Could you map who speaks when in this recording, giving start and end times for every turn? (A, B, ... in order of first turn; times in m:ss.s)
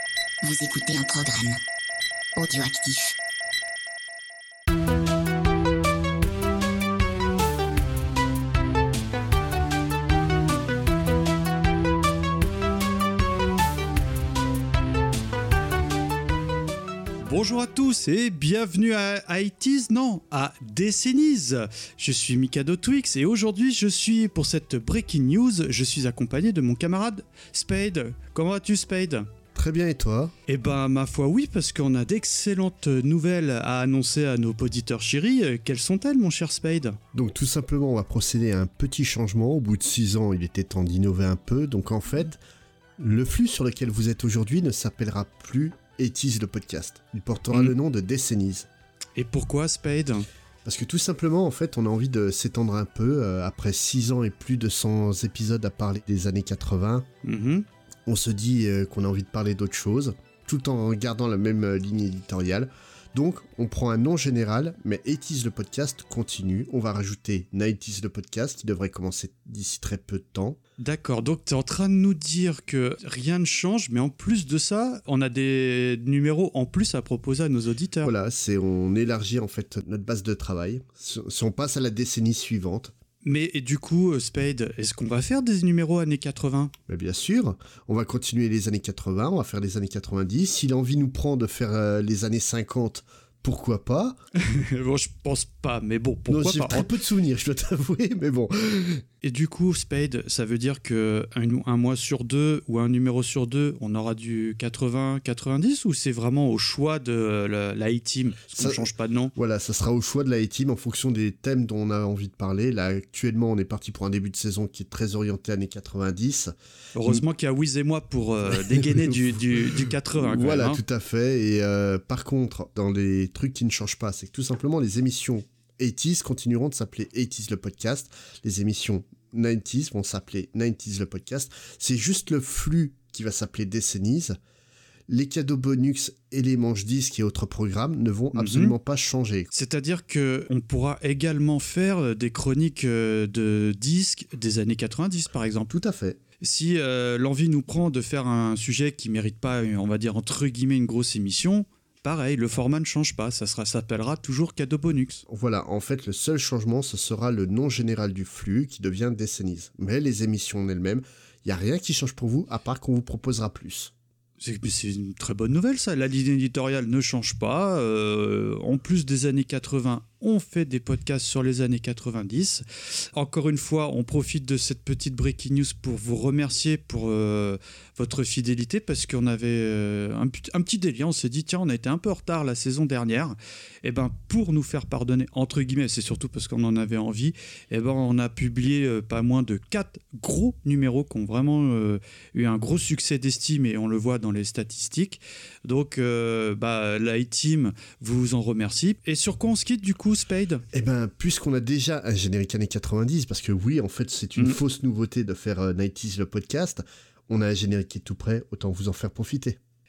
0:00.4-0:01.6 A
0:02.4-0:03.2 A
0:17.2-0:29.3 B
0:29.5-0:30.3 C
0:30.5-0:37.0 B
0:37.1-0:42.4 C
0:43.0-0:48.7 C
0:49.2-0:50.2 B
0:50.6-0:57.0 C
0:57.2-0:57.6 B
0:58.1-1:10.6 C
1:10.8-1:18.1 B
1:18.0-1:22.9 C
1:23.2-1:26.7 B
1:26.9-1:34.2 C
1:34.4-1:36.9 B
1:36.3-1:39.0 C
1:39.2-1:49.3 B
1:48.6-1:57.2 C
1:56.9-2:00.8 B
1:58.5-2:14.4 C
2:15.1-2:19.5 C
2:18.3-2:18.8 B
2:19.5-2:25.7 B
2:25.7-2:26.2 C
2:26.4-2:35.2 B
2:35.3-2:43.9 C
2:44.4-3:20.6 B
3:20.7-3:29.6 C